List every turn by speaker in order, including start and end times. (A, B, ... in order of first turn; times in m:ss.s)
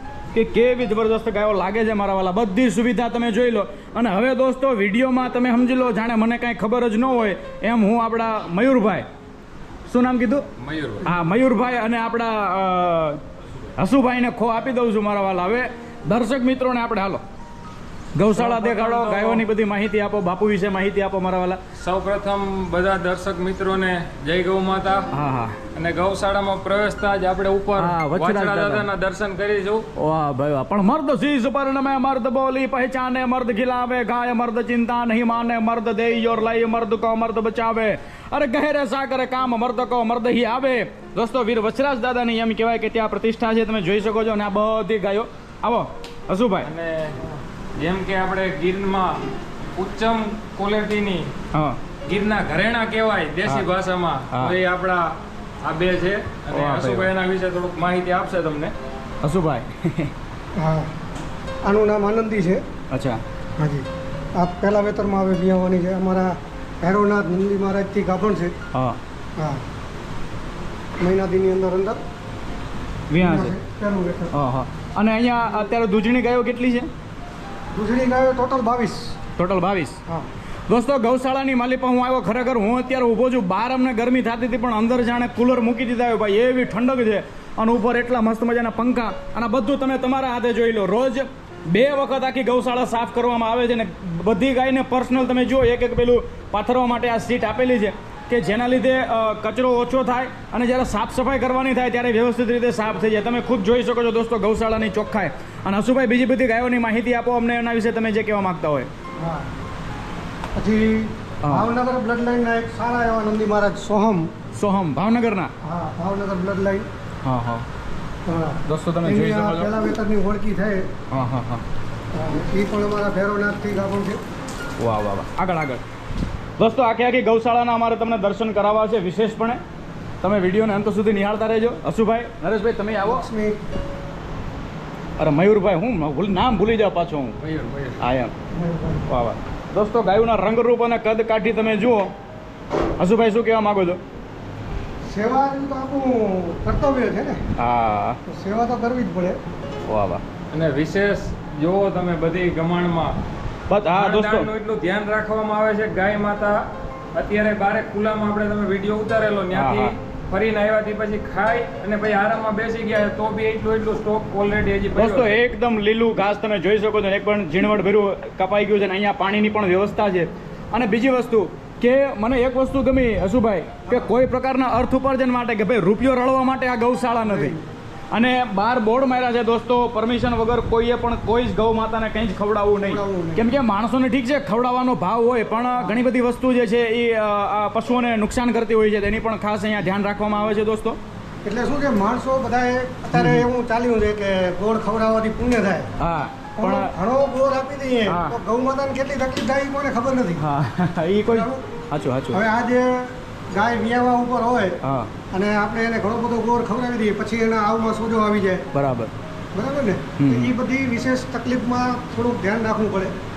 0:00.3-0:09.1 A
0:09.9-0:10.5 A
0:10.6-0:11.1 B
0:11.0-0:13.2 A
0:13.8-0:17.2 A
0:18.2-0:21.6 A
0:18.3-0:19.5 B
0:21.8-0:25.1 B
0:25.1-0:25.6 A
0:25.8-0:29.9 B
0:27.8-0:28.9 A
0:30.0-0:46.7 A
0:46.6-0:47.2 B
0:47.8-0:49.2 B
0:49.8-0:51.3 B
0:51.5-0:51.8 A
0:52.0-0:58.7 B
0:54.3-0:54.6 A
0:56.5-0:57.1 A
0:59.2-1:00.1 A
1:00.6-1:00.9 C
1:01.6-1:02.6 C
1:02.9-1:03.2 A
1:03.6-1:08.6 C
1:08.7-1:09.0 A
1:09.4-1:09.6 C
1:11.0-1:12.0 C
1:13.1-1:13.6 A
1:13.2-1:14.3 C
1:14.3-1:16.9 A
1:17.7-1:19.2 C
1:19.4-1:20.0 A
1:20.7-1:48.9 A
1:49.2-1:49.5 C
1:50.6-1:54.3 C
1:51.4-1:51.8 A
1:54.6-1:55.5 A
1:55.6-1:56.9 C
1:57.2-1:57.6 A
1:58.3-2:00.9 C
1:58.7-1:59.7 A
2:01.1-2:01.6 A
2:02.1-2:04.2 C
2:04.8-2:05.8 A
2:06.6-2:09.6 A
2:10.2-2:13.2 A
2:13.0-2:13.6 C
2:15.2-2:17.4 A
2:17.4-2:18.0 B
2:18.0-2:18.3 A
2:18.5-2:19.1 C
2:19.1-2:22.1 A
2:23.0-2:24.0 A
2:25.0-2:27.4 C
2:27.6-2:28.2 A
2:28.3-2:29.4 C
2:29.9-2:30.2 A
2:30.5-2:33.2 B
2:33.7-2:34.5 A
2:34.0-2:45.3 B
2:39.5-2:40.0 A
2:45.0-2:57.6 A
2:57.2-2:57.6 C
2:58.1-3:11.0 A
3:02.8-3:03.4 C
3:11.4-3:15.9 C
3:13.1-3:13.5 A
3:16.0-3:16.9 A
3:16.6-3:20.4 C
3:18.1-3:18.4 A
3:20.4-3:22.4 A
3:21.3-3:21.7 C
3:22.3-3:28.7 C
3:24.8-3:25.1 A
3:28.7-3:29.1 A
3:29.5-3:33.2 C
3:30.2-3:30.6 A